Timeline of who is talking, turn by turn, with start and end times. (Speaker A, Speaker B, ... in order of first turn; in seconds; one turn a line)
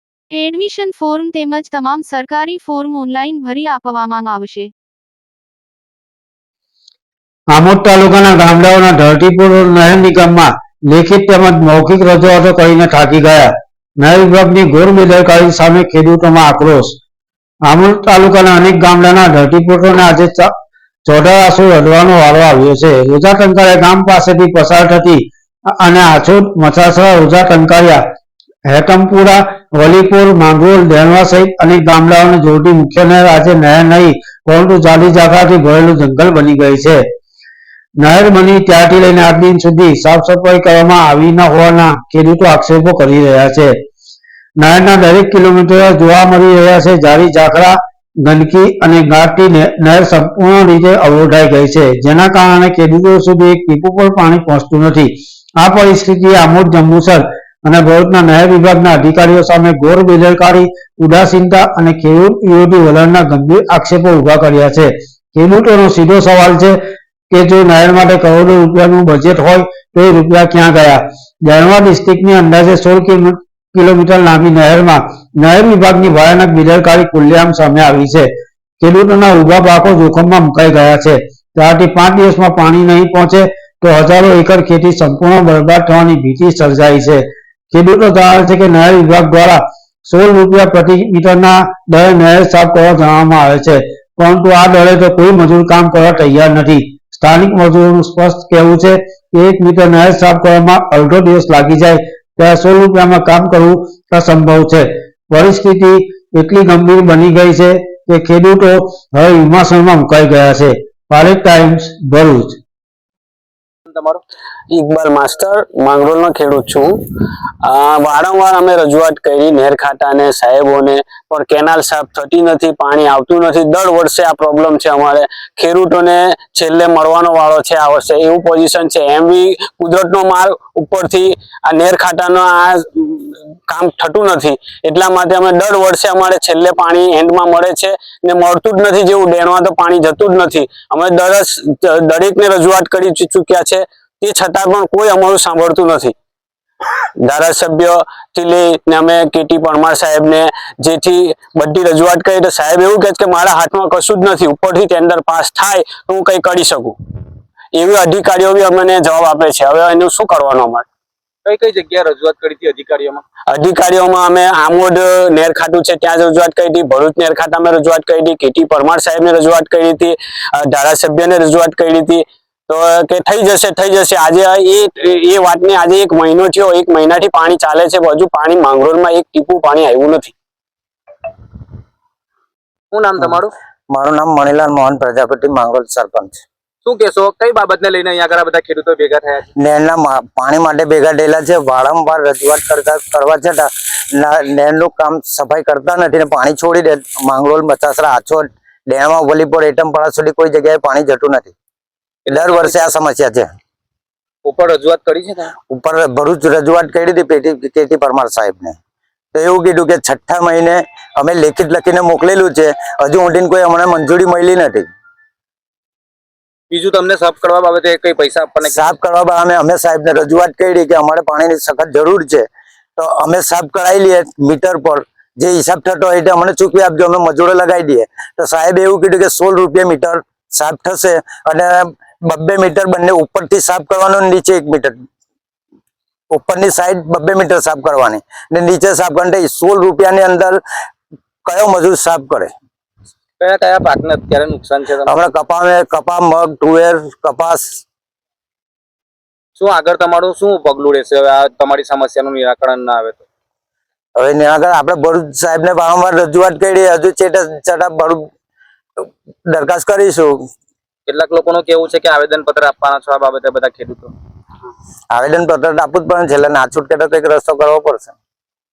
Speaker A: 0.3-4.7
Speaker B: 7.5-17.0
Speaker B: 17.6-20.5
Speaker B: 21.1-25.3
Speaker B: 25.8-28.0
Speaker B: 28.7-37.0
Speaker B: 38.0-43.8
Speaker B: 44.6-66.8
Speaker B: 67.3-112.6
Speaker C: 113.9-114.2
Speaker D: 114.7-117.0
Speaker D: 117.6-146.1
Speaker D: 147.2-156.9
Speaker D: 157.7-160.8
Speaker C: 161.5-163.2
Speaker D: 163.5-180.3
Speaker C: 182.9-183.5
Speaker E: 183.2-186.4
Speaker C: 186.8-189.5
Speaker E: 189.6-201.5
Speaker C: 202.3-202.8
Speaker E: 202.3-203.6
Speaker C: 204.4-205.5
Speaker E: 205.7-208.8
Speaker E: 209.3-214.9
Speaker C: 216.7-218.9
Speaker E: 218.6-235.0
Speaker E: 236.3-240.6
Speaker E: 241.5-242.5
Speaker C: 243.4-245.2
Speaker E: 245.1-247.8
Speaker C: 249.6-253.3
Speaker E: 254.2-258.3
Speaker E: 259.0-260.5
Speaker C: 261.1-264.1
Speaker E: 265.1-268.2